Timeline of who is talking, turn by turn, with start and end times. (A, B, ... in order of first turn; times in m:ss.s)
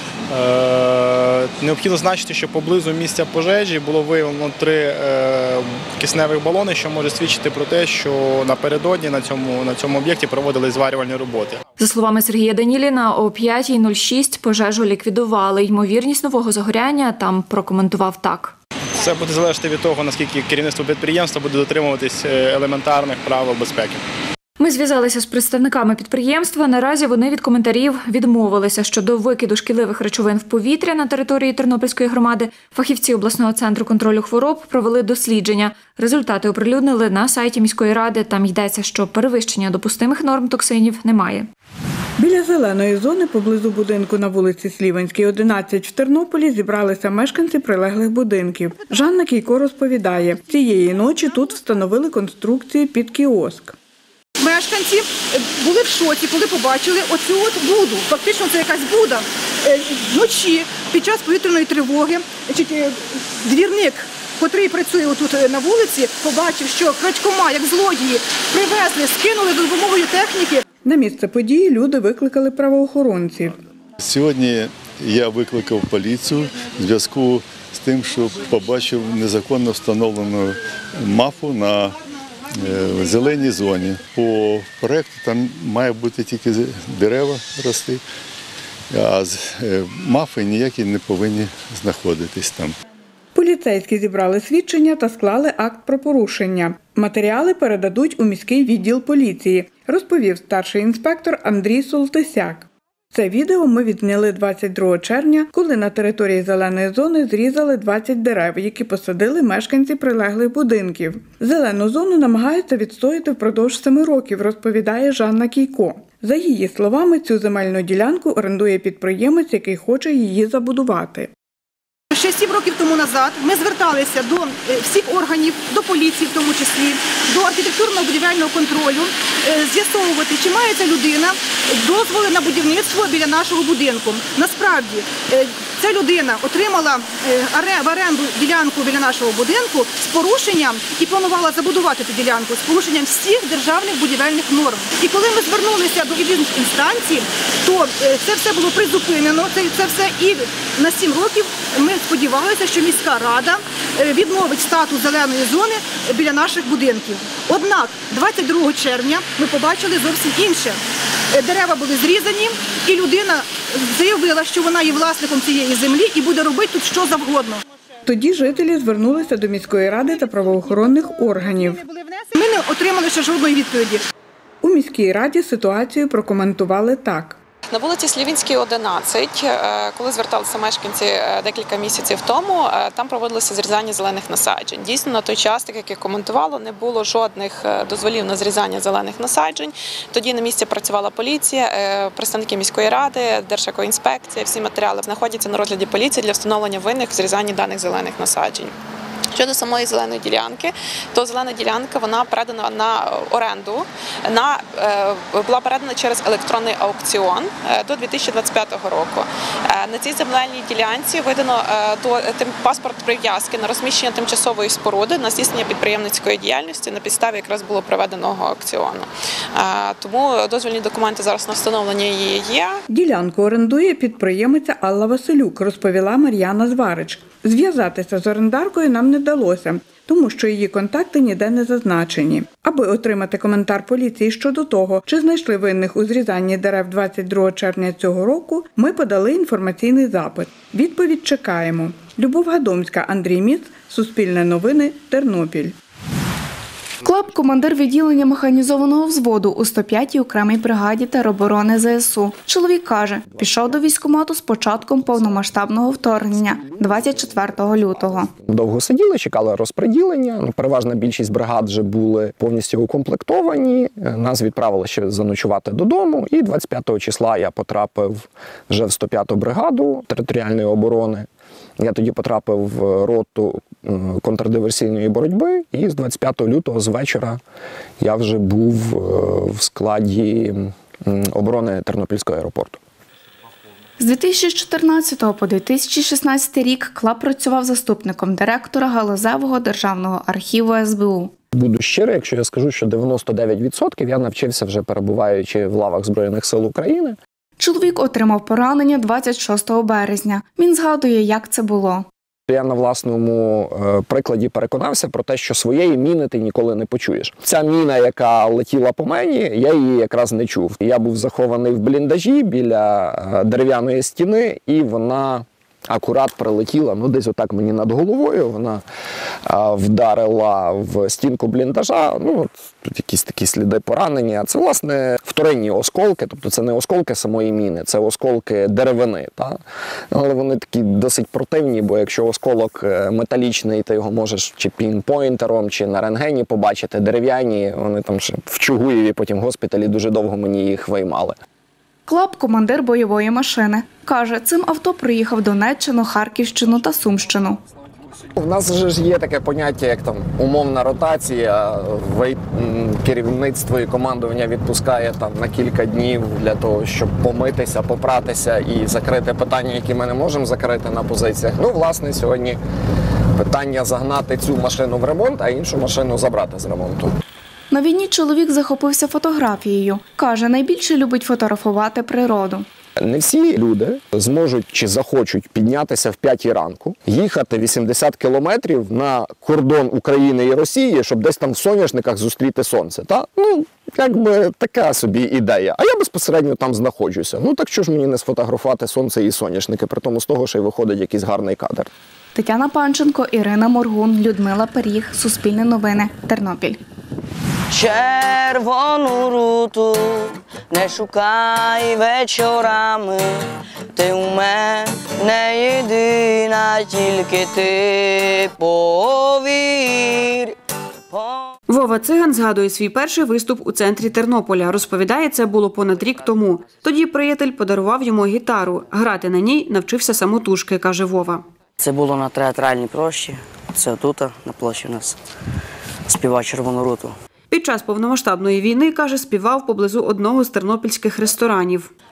0:00.3-0:11.6 A
0:11.8-0:18.5 B
0:19.0-0:24.0 A
0:24.6-0:41.5 B
0:42.2-0:53.8 C
0:54.4-1:10.6 D
1:10.8-1:13.6 C
1:14.0-1:21.9 E
1:22.6-1:28.0 E
1:28.9-1:32.8 E
1:33.3-2:01.3 C
2:02.1-2:40.8 D
2:41.3-2:47.6 D
2:48.0-2:51.8 C
2:50.5-2:54.0 D
2:54.6-2:57.4 C
2:57.7-3:18.7 F
3:19.3-3:42.8 F
3:42.9-4:05.8 C
4:07.0-4:18.3 G
4:18.4-4:31.3 H
4:31.8-4:37.4 H
4:38.0-4:42.8 H
4:44.0-4:51.3 G
4:51.5-4:57.2 H
4:57.6-5:02.0 G
5:02.5-5:18.8 H
5:19.4-5:29.6 H
5:30.1-5:41.4 H
5:42.1-5:47.6 G
5:48.4-6:02.6 H
6:03.4-6:07.1 H
6:07.7-6:12.6 G
6:13.0-6:31.9 H
6:32.3-6:36.8 G
6:37.7-6:50.5 I
6:51.1-6:51.5 I
6:51.7-7:01.4 J
7:01.8-7:05.2 I
7:06.0-7:07.2 I
7:07.5-7:11.9 J